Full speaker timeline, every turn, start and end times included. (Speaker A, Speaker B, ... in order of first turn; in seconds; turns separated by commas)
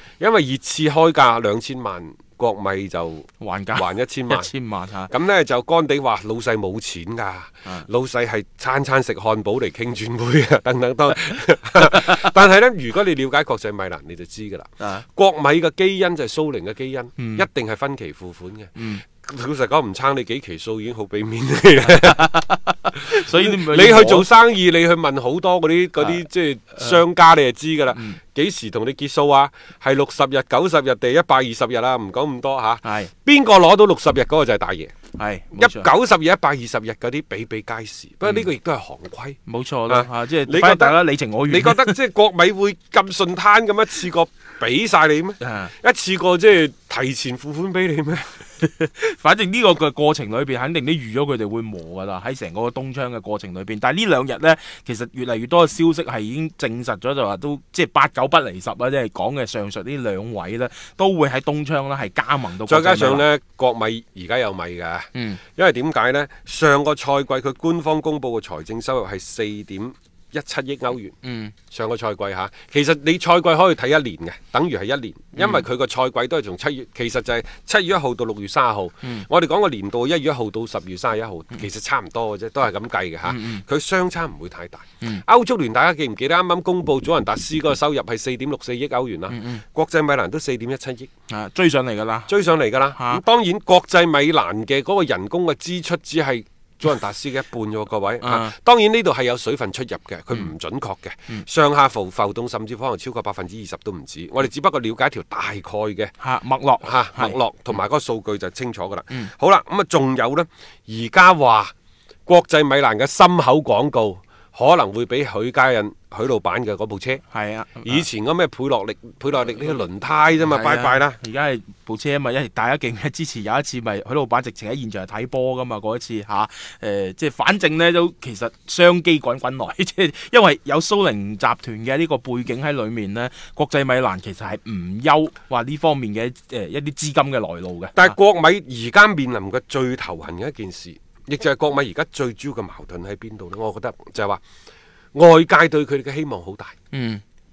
Speaker A: 0.2-4.5, Speaker B: 3.4-5.1, Speaker A: 5.1-22.4, Speaker B: 17.2-17.5, Speaker B: 18.8-19.0, Speaker B: 21.9-24.3, Speaker A: 23.1-34.9, Speaker B: 32.8-33.1, Speaker B: 35.2-35.9, Speaker A: 35.6-39.4, Speaker B: 39.5-42.0, Speaker A: 39.9-41.0, Speaker A: 41.5-48.4, Speaker B: 45.4-45.7, Speaker B: 48.6-63.2, Speaker A: 62.7-71.2, Speaker B: 65.2-65.4, Speaker B: 71.2-71.5, Speaker A: 71.7-91.1, Speaker B: 75.4-75.6, Speaker B: 83.2-83.6, Speaker B: 89.3-89.6, Speaker B: 91.3-92.3, Speaker A: 92.3-106.1, Speaker B: 92.9-93.2, Speaker B: 98.2-98.5, Speaker B: 106.2-107.4, Speaker A: 106.8-111.7, Speaker A: 112.3-117.2, Speaker B: 117.3-118.0, Speaker A: 117.8-121.2, Speaker B: 120.5-138.2, Speaker A: 138.0-144.4, Speaker A: 145.2-146.8, Speaker B: 146.9-147.2